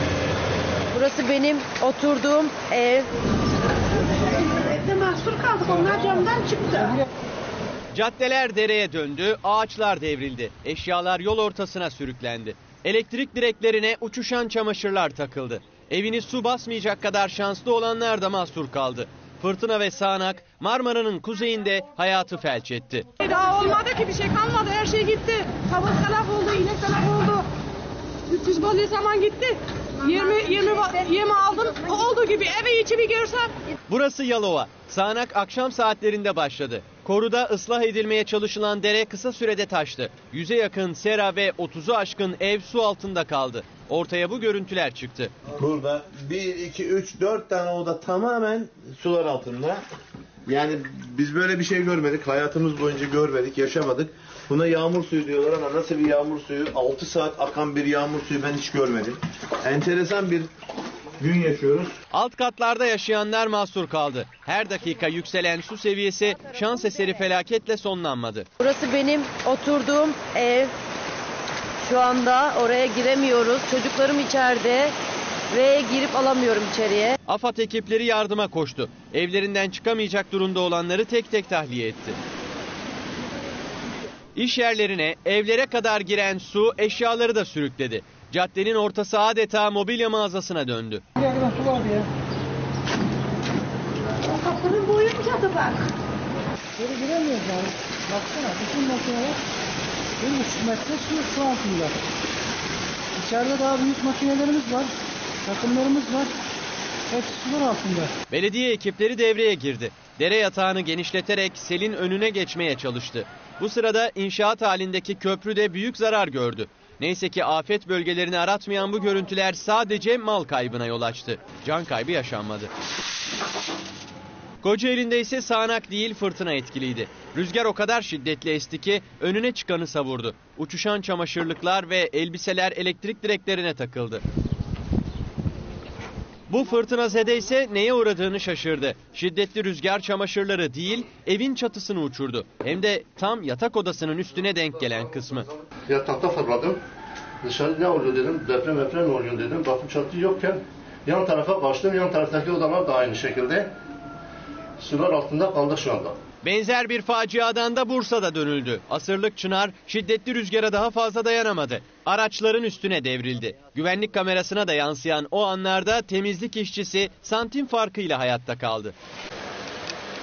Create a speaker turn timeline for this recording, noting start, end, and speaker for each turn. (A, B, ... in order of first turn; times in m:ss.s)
0:00.9-0:03.1 A
0:04.4-0:07.0 B
0:07.9-0:23.1 C
0:23.2-0:27.4 B
0:28.3-0:33.5 B
0:33.9-0:45.3 C
0:45.6-0:49.8 D
0:50.4-1:00.5 D
1:01.2-1:02.0 D
1:02.1-1:08.5 C
1:08.6-1:10.7 A
1:11.8-1:14.9 A
1:15.5-1:17.1 A
1:17.3-1:22.2 C
1:24.4-1:31.0 C
1:31.2-1:32.1 E
1:34.2-1:35.9 B
1:36.8-1:39.4 E
1:40.2-1:41.9 E
1:43.2-1:44.9 E
1:45.4-1:46.3 E
1:47.1-1:48.1 E
1:48.3-2:02.7 C
2:04.6-2:14.2 C
2:16.5-2:25.5 C
2:25.9-2:26.8 F
2:27.4-2:33.7 F
2:34.8-2:36.2 F
2:36.4-2:48.9 C